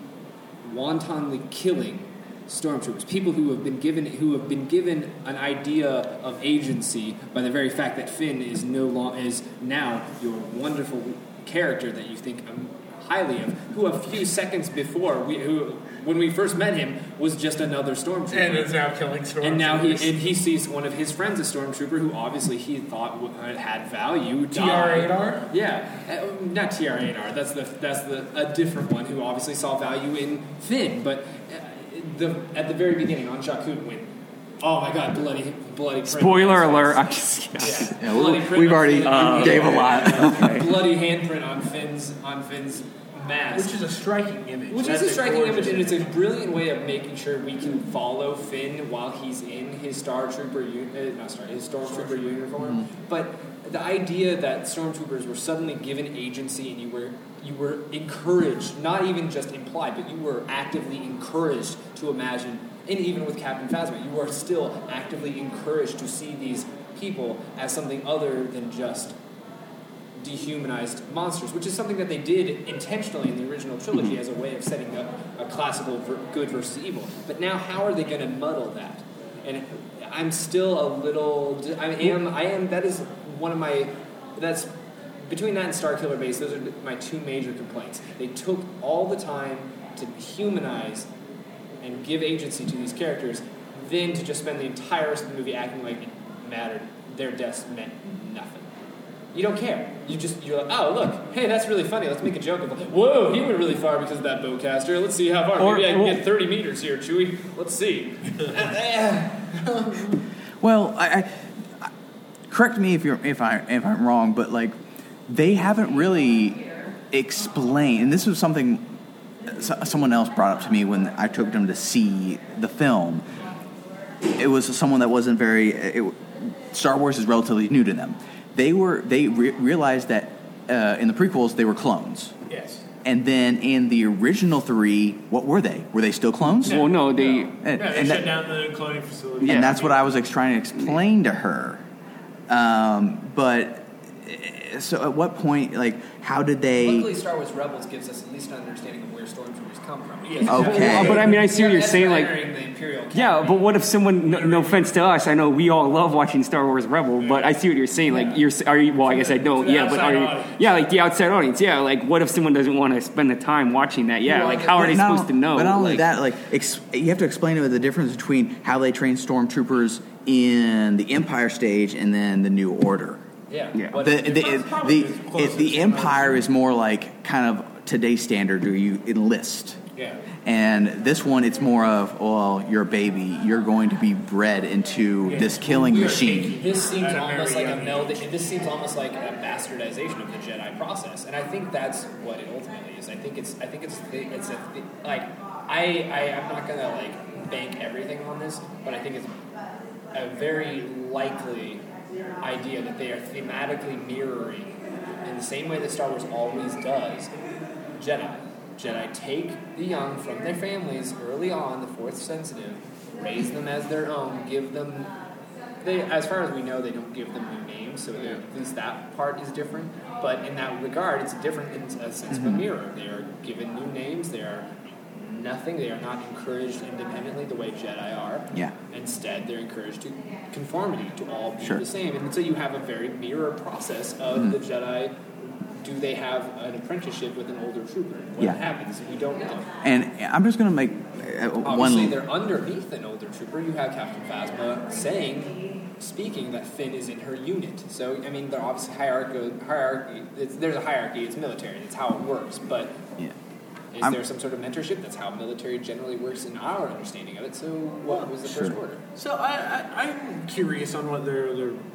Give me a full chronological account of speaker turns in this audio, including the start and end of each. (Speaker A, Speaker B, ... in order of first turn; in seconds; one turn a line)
Speaker A: 0.6-18.7
Speaker B: 18.3-20.3
Speaker A: 19.4-37.0
Speaker B: 24.5-25.5
Speaker C: 36.1-38.2
Speaker A: 37.6-43.7
Speaker D: 37.9-40.6
Speaker C: 39.0-40.8
Speaker B: 39.4-40.4
Speaker B: 43.5-46.0
Speaker A: 44.7-69.2
Speaker B: 51.9-52.3
Speaker A: 70.2-84.7
Speaker A: 85.2-91.1
Speaker A: 91.8-98.7
Speaker A: 99.3-110.1
Speaker C: 105.6-106.2
Speaker B: 109.7-110.2
Speaker D: 110.6-111.9
Speaker D: 112.5-114.7
Speaker D: 115.3-118.9
Speaker D: 119.5-123.4
Speaker D: 124.2-132.3
Speaker B: 132.5-132.8
Speaker D: 133.0-136.9
Speaker C: 136.6-137.5
Speaker B: 136.6-140.0
Speaker D: 137.6-138.3
Speaker D: 139.4-141.8
Speaker C: 139.4-139.7
Speaker D: 142.5-147.1
Speaker A: 146.8-153.7
Speaker B: 150.2-151.4
Speaker D: 150.5-151.2
Speaker C: 150.5-152.3
Speaker C: 153.1-166.0
Speaker B: 154.3-154.9
Speaker B: 157.2-157.5
Speaker A: 158.1-158.4
Speaker B: 159.0-160.8
Speaker A: 164.2-164.7
Speaker D: 164.5-173.2
Speaker A: 173.5-175.4
Speaker D: 173.9-179.8
Speaker B: 174.5-176.4
Speaker D: 180.4-186.5
Speaker B: 185.2-188.3
Speaker A: 185.9-199.4
Speaker A: 200.1-201.8
Speaker A: 202.4-207.3
Speaker A: 207.9-215.1
Speaker A: 215.8-235.2
Speaker B: 218.2-218.4
Speaker D: 222.3-222.6
Speaker A: 235.8-239.8
Speaker D: 239.8-242.2
Speaker A: 241.6-253.0
Speaker A: 253.9-259.0
Speaker B: 258.1-258.4
Speaker B: 259.1-261.8